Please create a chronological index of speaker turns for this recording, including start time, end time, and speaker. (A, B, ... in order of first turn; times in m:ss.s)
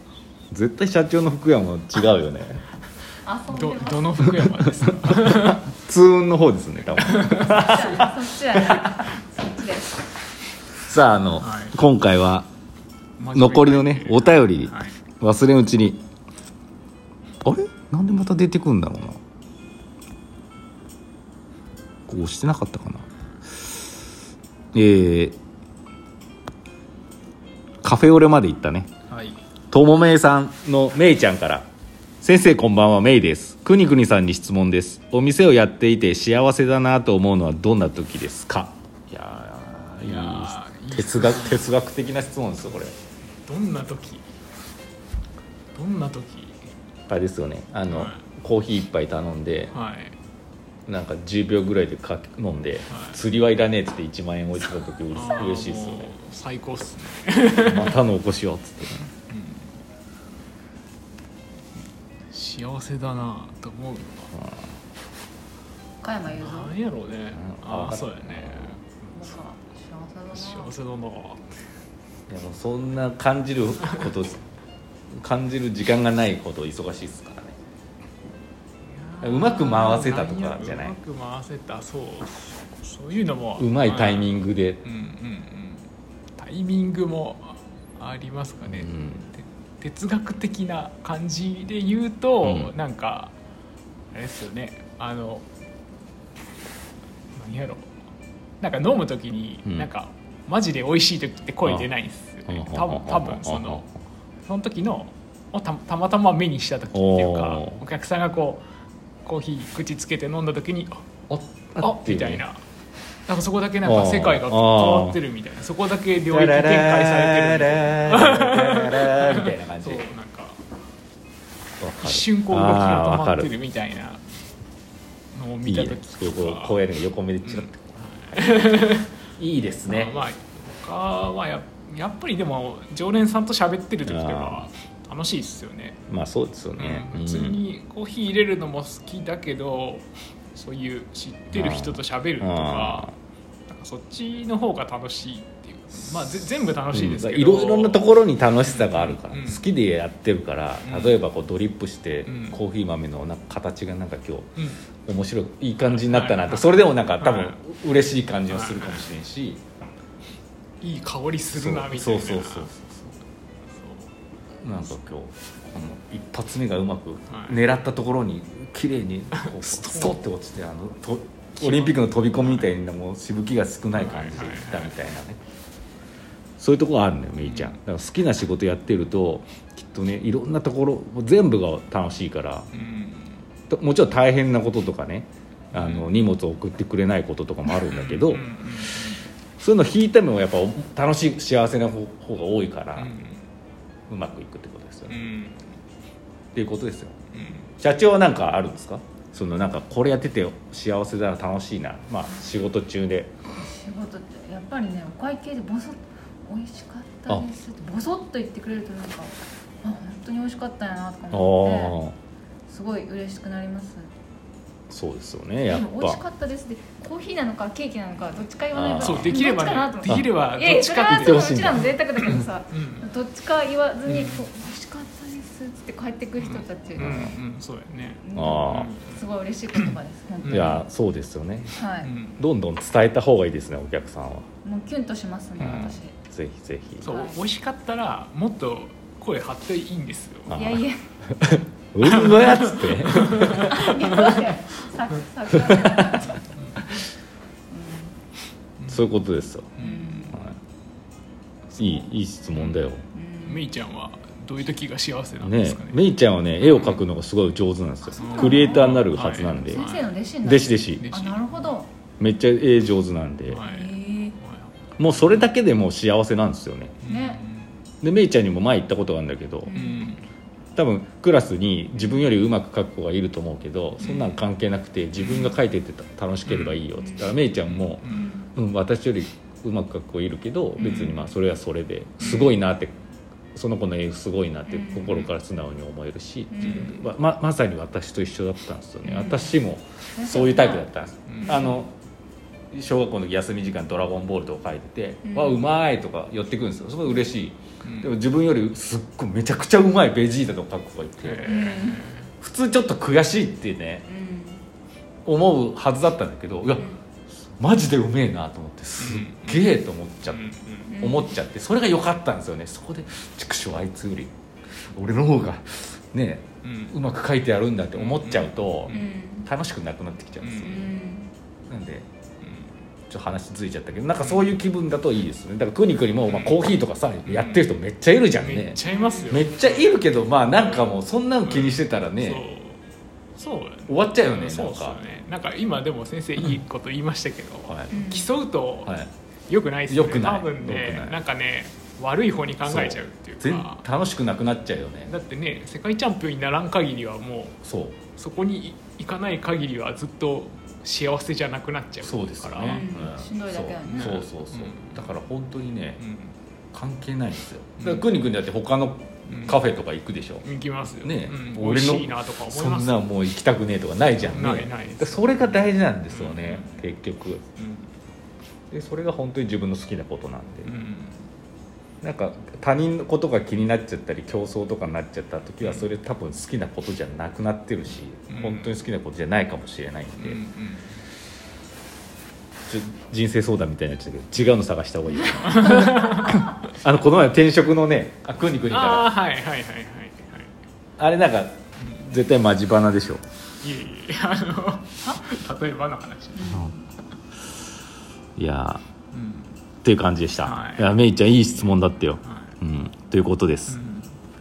0:00.5-0:02.6 A
0:03.2-0:04.2 B
0:03.5-0:05.6 C
0:05.0-0:08.9 A
0:07.0-0:07.5 C
0:07.3-0:10.0 B
0:10.8-0:12.5 A
0:11.4-0:11.8 C
0:13.2-0:14.9 C
0:13.3-0:16.0 A
0:17.4-0:19.2 A
0:22.1-0:23.0 A
0:24.7-0:25.4 A
0:27.8-0:28.9 A
0:29.7-0:31.7 A
0:32.2-0:42.9 A
0:40.0-0:41.7 C
0:43.4-0:44.2 C
0:45.7-0:46.6 C
0:47.1-0:49.7 A
0:47.9-0:48.2 C
0:49.7-0:50.2 C
0:50.8-0:56.1 A
0:52.9-0:53.2 C
0:55.1-0:58.0 C
0:57.5-0:59.1 A
0:59.3-0:59.7 C
1:02.3-1:04.3 C
1:04.3-1:04.7 A
1:06.0-1:06.7 B
1:06.3-1:08.8 C
1:07.3-1:08.8 A
1:09.1-1:10.7 B
1:10.3-1:11.4 C
1:12.3-1:14.5 A
1:15.1-1:17.5 A
1:18.9-1:25.8 C
1:19.2-1:21.0 A
1:23.6-1:24.8 A
1:26.4-1:33.3 C
1:28.7-1:29.3 A
1:32.4-1:32.7 A
1:34.1-1:35.4 C
1:37.3-1:37.9 C
1:38.6-1:43.8 C
1:42.5-1:43.9 A
1:44.4-1:48.6 C
1:46.9-1:47.8 A
1:49.2-1:51.0 C
1:51.3-1:52.4 A
1:51.8-1:52.6 C
1:53.3-2:00.6 C
1:53.8-1:55.2 A
1:56.2-2:00.0 A
2:01.8-2:03.5 A
2:02.0-2:04.2 C
2:05.3-2:06.8 C
2:05.6-2:07.9 A
2:07.4-2:09.1 C
2:09.4-2:10.2 A
2:09.9-2:16.0 C
2:14.0-2:14.7 A
2:16.1-2:17.6 A
2:16.8-2:23.1 C
2:21.5-2:23.1 A
2:23.7-2:28.1 C
2:26.9-2:39.6 A
2:28.6-2:29.6 C
2:30.8-2:31.2 C
2:32.2-2:32.6 C
2:34.6-2:34.8 C
2:35.8-2:37.6 C
2:38.5-2:39.1 C
2:40.8-2:43.1 C
2:41.5-2:42.7 A
2:43.7-2:44.1 C
2:44.6-2:55.4 A
2:47.3-2:47.6 C
2:49.3-2:50.2 C
2:51.6-2:52.7 C
2:53.9-2:55.0 C
2:56.6-3:02.7 A
2:57.4-2:57.8 C
3:02.7-3:03.4 C
3:03.7-3:08.5 A
3:05.7-3:06.1 C
3:07.7-3:09.2 C
3:09.6-3:13.1 A
3:13.0-3:13.4 C
3:14.1-3:15.2 A
3:15.1-3:15.6 C
3:16.5-3:17.1 A
3:17.3-3:17.7 C
3:17.8-3:23.3 A
3:23.5-3:32.0 B
3:31.3-3:32.2 A
3:32.7-3:34.1 B
3:34.9-3:36.2 A
3:35.7-3:47.3 B
3:38.7-3:39.4 A
3:39.0-3:43.1 C
3:41.0-3:42.4 A
3:44.1-3:44.4 C
3:46.4-3:49.2 C
3:47.0-3:47.4 A
3:48.2-3:50.8 B
3:48.3-3:48.9 A
3:49.7-3:50.7 C
3:50.5-3:51.8 A
3:51.7-3:52.1 B
3:52.0-3:52.4 C
3:52.4-3:54.5 A
3:54.6-3:56.2 B
3:55.6-3:57.1 A
3:57.0-4:00.6 C
3:57.0-3:57.4 B
4:00.5-4:00.8 A
4:00.5-4:01.0 B
4:01.4-4:03.9 A
4:02.0-4:04.5 C
4:03.6-4:06.5 B
4:05.5-4:06.1 A
4:07.7-4:08.1 B
4:08.9-4:09.8 A
4:09.8-4:10.3 C
4:09.8-4:10.5 B
4:10.3-4:10.6 A
4:11.7-4:12.9 C
4:11.8-4:13.0 A
4:13.1-4:13.6 B
4:13.4-4:16.1 C
4:15.4-4:19.9 A
4:16.6-4:17.0 C
4:18.0-4:19.0 B
4:18.2-4:20.1 C
4:19.7-4:21.9 B
4:20.4-4:21.1 A
4:21.0-4:21.7 C
4:22.2-4:23.6 A
4:23.5-4:25.5 C
4:23.6-4:24.4 B
4:25.0-4:27.0 A
4:27.0-4:27.7 C
4:27.0-4:27.4 B
4:28.0-4:29.7 A
4:29.7-4:30.2 B
4:29.7-4:30.2 C
4:30.8-4:42.9 A
4:34.0-4:34.4 C
4:35.2-4:35.5 C
4:36.5-4:36.8 C
4:37.0-4:37.4 B
4:37.7-4:38.3 C
4:38.1-4:38.5 B
4:40.8-4:41.1 B
4:40.8-4:41.2 C
4:42.2-4:42.6 C
4:43.5-4:51.9 A
4:44.7-4:45.3 B
4:46.5-4:46.9 B
4:46.6-4:46.9 C
4:49.0-4:49.6 B
4:50.1-4:50.9 B
4:51.3-4:51.6 C
4:51.4-4:51.8 B
4:52.7-5:01.7 A
4:55.2-4:55.6 B
4:57.8-4:58.1 C
5:01.2-5:02.3 C
5:01.4-5:02.0 B
5:02.4-5:04.0 A
5:04.1-5:04.6 B
5:05.2-5:06.9 A
5:07.6-5:14.3 A
5:09.0-5:09.7 C
5:10.3-5:10.9 C
5:10.8-5:11.3 B
5:14.9-5:20.9 A
5:16.6-5:16.9 C
5:17.9-5:19.1 C
5:18.9-5:19.5 B
5:20.4-5:20.9 C
5:20.6-5:21.3 B
5:21.7-5:22.1 A
5:23.1-5:32.5 A
5:24.2-5:24.5 C
5:26.3-5:26.6 C
5:27.2-5:27.7 C
5:28.3-5:32.8 C
5:28.9-5:29.4 B
5:33.4-5:39.0 C
5:33.9-5:35.0 A
5:37.7-5:38.0 A
5:37.9-5:38.3 B
5:39.5-5:43.8 C
5:39.9-5:41.2 A
5:42.6-5:45.1 A
5:45.1-5:47.6 C
5:47.6-5:48.0 A
5:48.1-5:52.9 C
5:52.0-5:56.0 A
5:52.6-5:54.2 B
5:53.8-5:55.0 C
5:56.0-5:56.3 C
5:56.7-6:00.4 A
5:57.8-5:58.0 C
5:59.3-5:59.6 C
6:00.4-6:03.0 C
6:01.0-6:07.4 A
6:04.2-6:06.8 C
6:07.6-6:07.9 C
6:08.7-6:10.7 A
6:10.6-6:11.2 C
6:12.0-6:20.4 A
6:18.3-6:18.7 C
6:20.2-6:21.0 C
6:22.7-6:29.1 A
6:25.4-6:26.4 C
6:28.7-6:30.5 C
6:31.0-6:33.2 A
6:33.6-6:36.6 C
6:36.4-6:36.8 B
6:38.4-6:38.8 A
6:39.1-6:39.5 C
6:39.8-6:43.8 A
6:40.4-6:41.0 C
6:41.6-6:42.5 C
6:43.7-6:44.1 C